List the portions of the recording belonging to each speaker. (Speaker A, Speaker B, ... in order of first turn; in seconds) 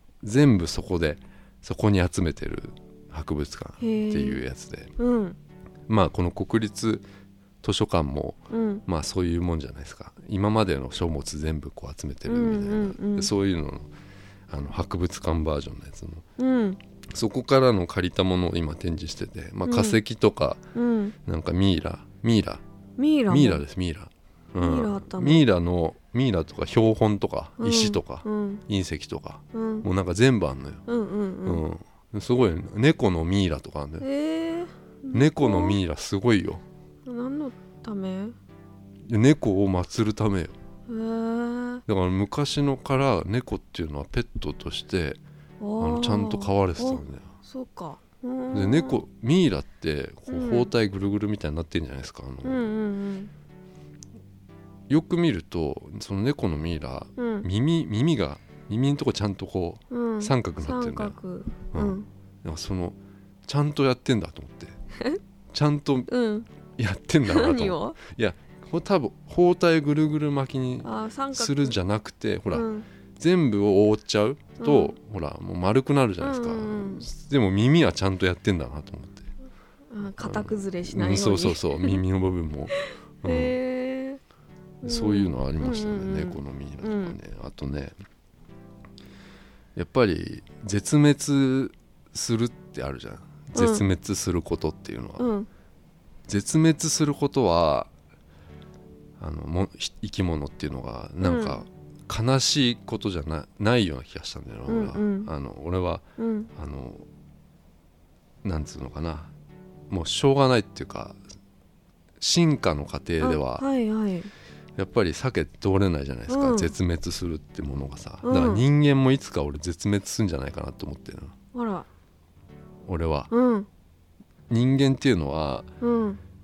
Speaker A: 0.2-4.9, 5.9-7.0, 7.6-13.9, 14.5-16.2, 17.1-20.6, 21.2-22.6, 23.3-30.8, 31.4-34.1, 35.1-36.6, 39.1-40.5, 41.9-45.2, 45.8-47.3, 48.5-52.6, 54.9-61.1, 61.7-64.8, 65.5-66.1, 66.8-79.3, 80.0-83.5, 84.8-87.9, 89.8-95.3, 96.3-97.9, 99.2-107.0, 108.4-109.3, 109.9-111.2, 112.2-113.7, 114.8-121.3, 122.8-123.3, 124.5-125.7
Speaker B: 3.8-4.4, 5.0-5.4, 8.5-8.8, 12.3-13.3, 16.4-16.8, 19.6-20.0, 20.7-21.1, 23.0-23.6, 24.6-25.4, 27.6-28.6, 29.5-29.9, 30.9-31.6, 34.0-35.8, 37.0-38.4, 40.9-41.8, 45.6-49.0, 50.3-50.7, 52.4-53.3, 57.2-57.5, 59.9-62.1, 66.1-66.5, 67.2-68.0, 70.8-71.8, 72.5-72.9, 74.6-74.9, 76.2-77.0, 79.9-82.0, 82.7-84.2, 84.8-87.2, 93.5-93.8, 95.2-95.5, 101.2-101.6, 104.7-105.3, 106.2-106.5, 113.2-114.3, 116.3-116.7, 118.2-118.6, 121.5-121.9, 123.3-123.7, 125.8-126.2